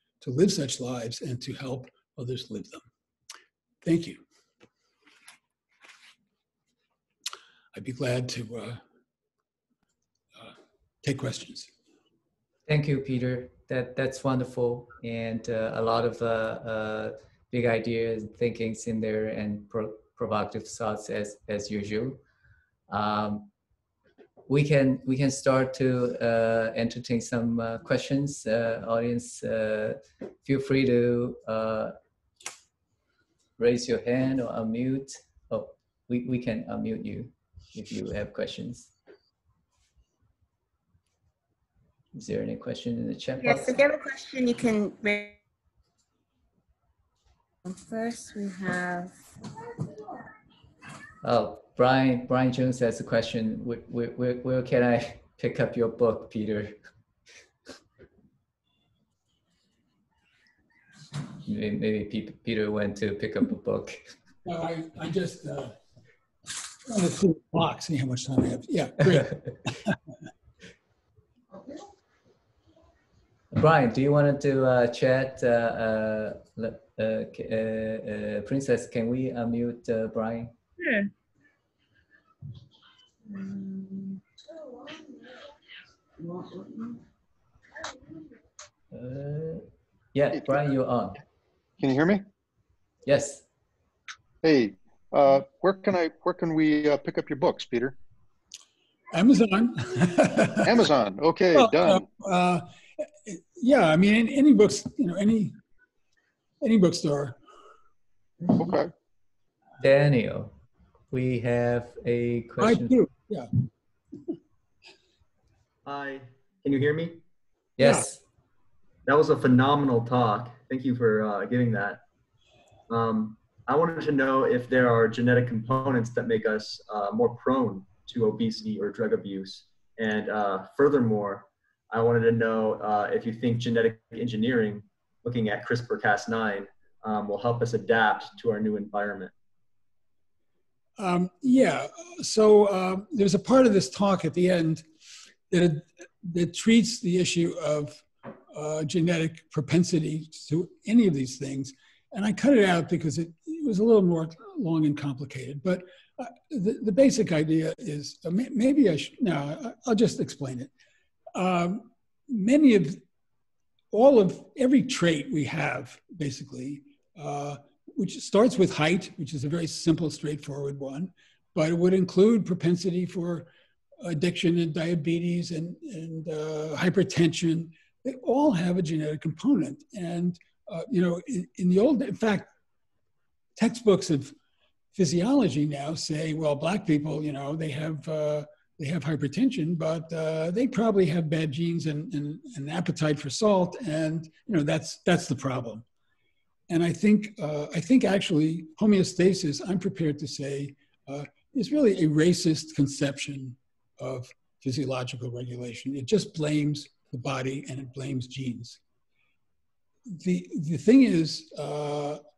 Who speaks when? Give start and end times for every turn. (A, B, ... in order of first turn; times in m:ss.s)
0:00.2-0:02.9 A
0:03.8-0:04.2 A
0:07.7-0:08.8 A
0:10.4-0:11.7 A
0:12.7-0:22.2 B
0:22.9-0:23.5 B
0:24.5-0:31.9 B
0:33.6-0:38.9 B
0:42.1-0:43.8 B
0:43.4-0:45.4 C
0:47.6-0:49.1 C
0:51.2-0:56.8 B
1:01.4-1:04.0 B
1:04.4-1:05.8 A
1:06.8-1:10.0 A
1:13.5-1:20.5 B
1:23.3-1:24.2 C
1:26.2-1:27.0 C
1:28.9-1:31.2 B
1:31.8-1:32.2 D
1:33.0-1:33.4 B
1:34.4-1:37.9 D
1:39.1-1:40.7 A
1:40.6-1:42.0 D
1:41.5-1:45.6 A
1:46.6-1:47.4 A
1:48.5-1:48.9 D
1:49.8-1:50.5 B
1:51.1-1:53.0 B
1:52.6-1:53.5 A
1:55.8-1:57.2 E
1:57.8-1:58.2 B
1:59.0-2:02.0 E
2:02.9-2:19.3 E
2:21.0-2:24.8 A
2:25.5-2:40.7 A
2:41.3-2:43.0 A
2:43.9-2:53.5 A
2:54.0-3:02.5 A
3:03.6-3:04.3 A
3:04.9-3:15.8 A
3:16.7-3:28.8 A
3:30.1-3:32.2 A